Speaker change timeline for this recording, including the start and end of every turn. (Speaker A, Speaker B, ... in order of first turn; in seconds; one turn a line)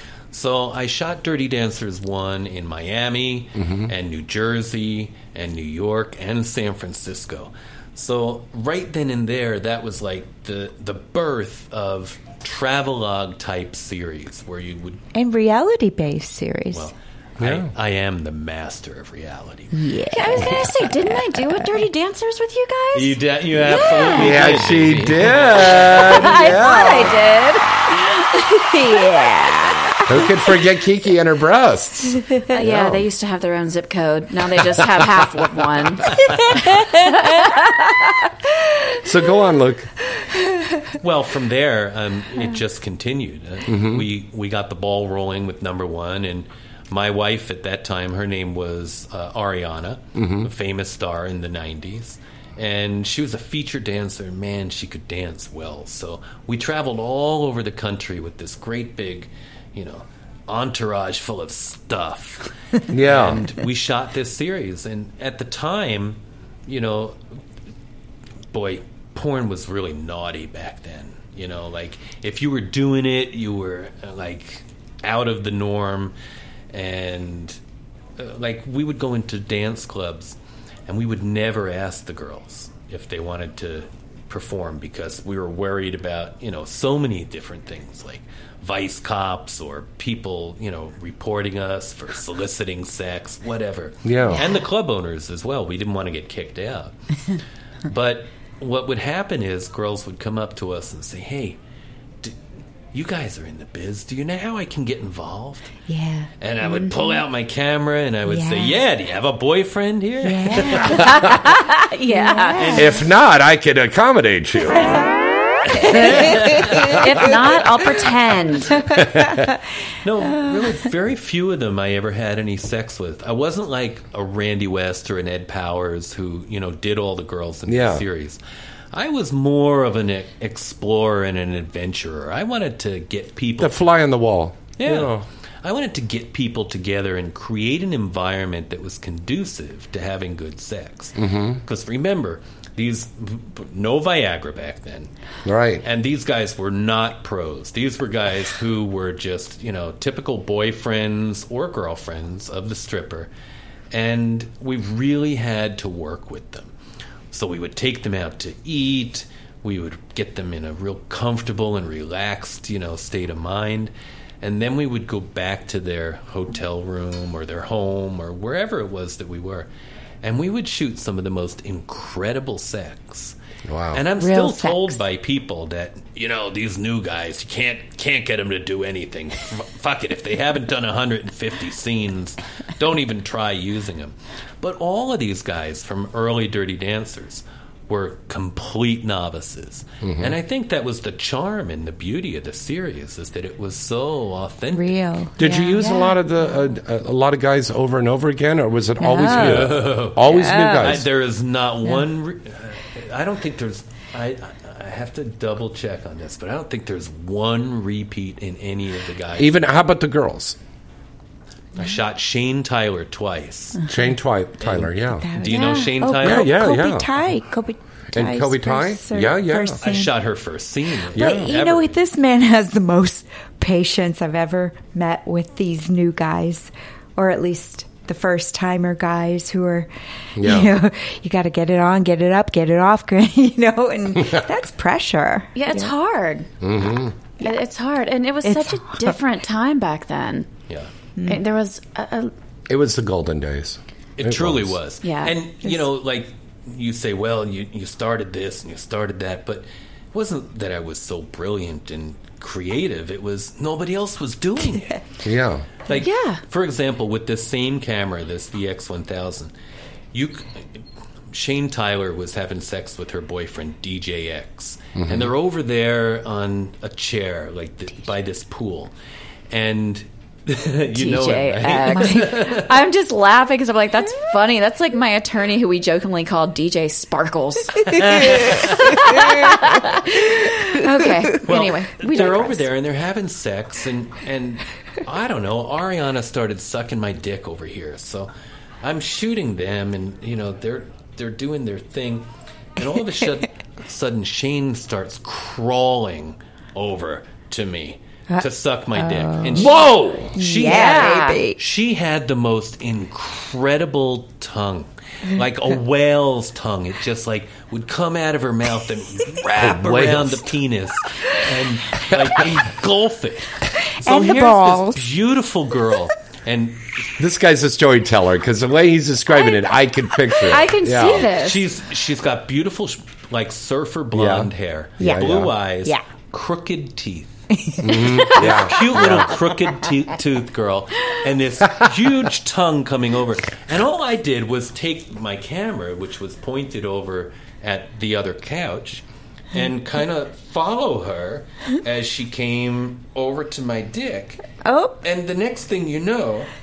Speaker A: 0.3-15.0
Speaker B: 3.6-3.9
Speaker C: 15.1-16.9
Speaker A: 16.7-19.7
Speaker B: 17.4-17.7
Speaker C: 19.7-20.9
Speaker D: 20.1-24.4
Speaker A: 22.9-26.4
Speaker B: 24.1-27.2
Speaker D: 25.9-29.9
Speaker C: 26.6-26.9
Speaker B: 30.1-33.1
Speaker D: 32.5-37.9
Speaker B: 39.0-39.9
Speaker A: 41.0-67.2
Speaker B: 43.6-44.1
Speaker B: 50.1-50.5
Speaker B: 62.9-63.5
Speaker A: 68.5-76.1
Speaker A: 76.7-77.6
Speaker A: 78.2-96.9
Speaker B: 94.0-94.5
Speaker A: 97.9-101.6
Speaker A: 102.9-105.7
Speaker C: 105.9-106.3
Speaker A: 106.4-111.3
Speaker C: 108.3-108.8
Speaker C: 110.2-111.0
Speaker B: 110.8-111.3
Speaker D: 110.9-112.8
Speaker C: 112.1-112.8
Speaker A: 112.5-112.9
Speaker B: 112.7-115.0
Speaker A: 115.9-117.0
Speaker C: 116.0-116.6
Speaker D: 116.8-118.9
Speaker B: 118.9-119.5
Speaker A: 120.0-128.4
Speaker B: 127.7-128.0
Speaker A: 128.9-133.8
Speaker B: 133.6-135.2
Speaker A: 134.8-145.1
Speaker B: 141.2-141.6
Speaker B: 145.4-145.8
Speaker A: 145.8-153.3
Speaker A: 153.9-156.7
Speaker A: 157.3-169.7
Speaker A: 170.2-173.3
Speaker B: 173.7-174.0
Speaker A: 173.9-195.1
Speaker C: 174.2-175.0
Speaker B: 190.0-190.3
Speaker C: 194.7-196.2
Speaker B: 195.4-201.1
Speaker C: 199.0-200.9
Speaker A: 199.2-209.5
Speaker B: 209.4-210.6
Speaker A: 211.8-213.8
Speaker B: 213.9-215.3
Speaker A: 214.6-216.6
Speaker C: 215.1-220.1
Speaker D: 215.5-215.9
Speaker B: 216.2-217.1
Speaker B: 218.1-219.8
Speaker A: 219.8-222.0
Speaker B: 221.1-221.5
Speaker C: 221.1-229.9
Speaker B: 230.3-230.7
Speaker C: 230.4-235.9
Speaker D: 235.5-236.5
Speaker B: 236.6-237.1
Speaker D: 237.4-240.5
Speaker C: 238.4-239.1
Speaker D: 241.2-242.3
Speaker B: 242.7-244.8
Speaker A: 244.2-255.0
Speaker D: 245.0-245.3
Speaker B: 255.2-255.7
Speaker A: 255.9-259.5
Speaker D: 255.9-256.4
Speaker A: 260.1-260.8
Speaker A: 261.3-268.9
Speaker B: 265.0-265.3
Speaker A: 269.5-272.8
Speaker D: 270.9-282.6
Speaker C: 271.9-272.3
Speaker A: 278.0-278.9
Speaker C: 279.1-279.4
Speaker A: 281.4-288.3
Speaker A: 288.8-292.2
Speaker A: 292.8-317.1
Speaker C: 298.3-299.6
Speaker B: 299.4-300.4
Speaker C: 300.3-301.6
Speaker D: 300.6-301.4
Speaker B: 309.5-310.5
Speaker C: 314.0-315.0
Speaker B: 317.2-321.3
Speaker D: 320.4-321.6
Speaker A: 321.3-327.4
Speaker B: 324.1-325.5
Speaker C: 325.0-325.3
Speaker C: 327.6-328.2
Speaker B: 327.8-329.3
Speaker A: 328.2-344.4
Speaker C: 344.6-344.9
Speaker A: 345.0-346.5